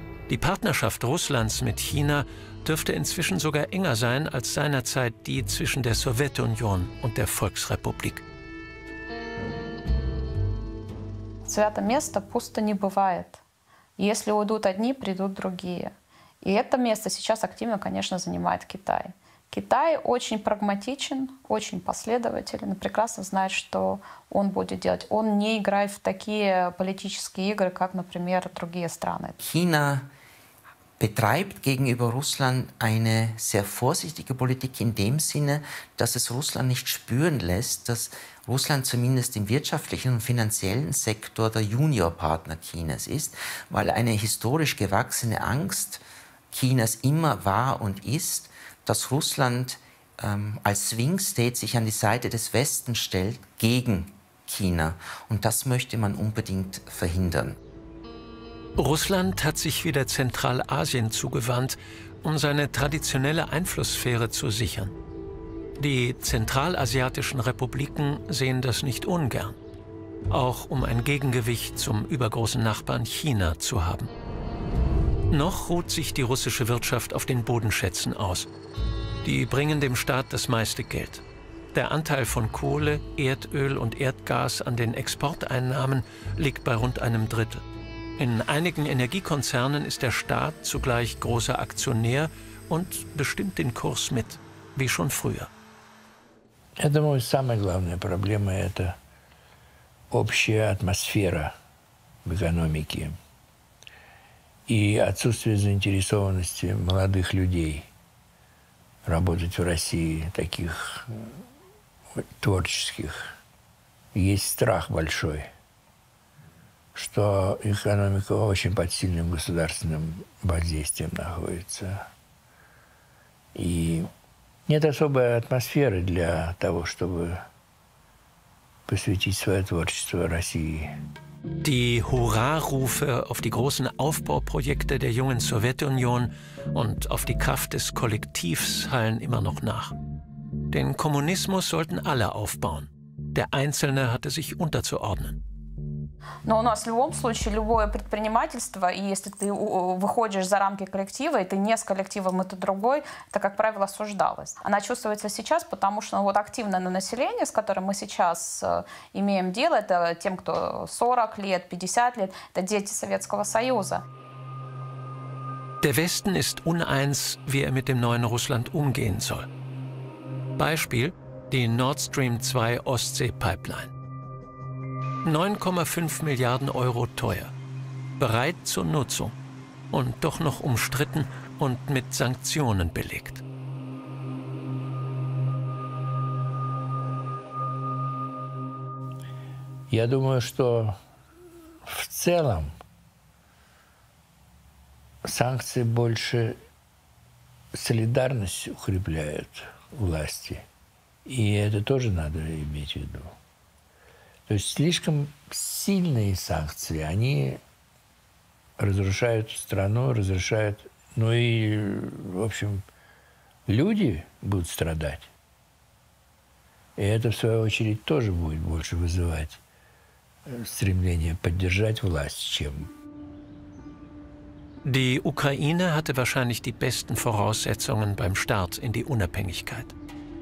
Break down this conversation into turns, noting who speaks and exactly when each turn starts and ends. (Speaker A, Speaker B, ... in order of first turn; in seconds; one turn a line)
Speaker A: 0.3-8.2
Speaker B: 11.4-13.4
Speaker B: 14.0-29.4
Speaker C: 29.4-30.1
Speaker C: 31.0-57.6
Speaker A: 58.8-64.9
Speaker A: 65.8-69.6
Speaker A: 70.3-74.1
Speaker A: 75.3-78.5
Speaker A: 79.2-81.2
Speaker A: 81.7-87.6
Speaker A: 88.2-95.5
Speaker D: 96.8-99.0
Speaker D: 100.1-101.5
Speaker D: 102.2-103.2
Speaker D: 104.7-107.9
Speaker D: 109.0-111.4
Speaker D: 112.2-113.3
Speaker D: 114.1-115.5
Speaker D: 116.9-122.1
Speaker D: 123.5-124.1
Speaker D: 124.7-127.5
Speaker D: 128.9-130.9
Speaker A: 131.6-139.9
Speaker A: 140.7-145.4
Speaker B: 146.4-164.0
Speaker A: 165.8-169.5
Speaker A: 170.6-173.9
Speaker A: 175.2-177.5
Speaker A: 178.2-179.3
Speaker A: 179.9-183.4
Speaker D: 189.9-191.0
Speaker D: 191.8-192.7
Speaker D: 195.2-196.6
Speaker D: 197.7-200.6
Speaker D: 201.2-203.3
Speaker D: 204.5-207.6
Speaker D: 208.8-212.8
Speaker D: 213.7-215.3
Speaker D: 217.0-219.6
Speaker D: 220.4-222.9
Speaker A: 224.8-229.9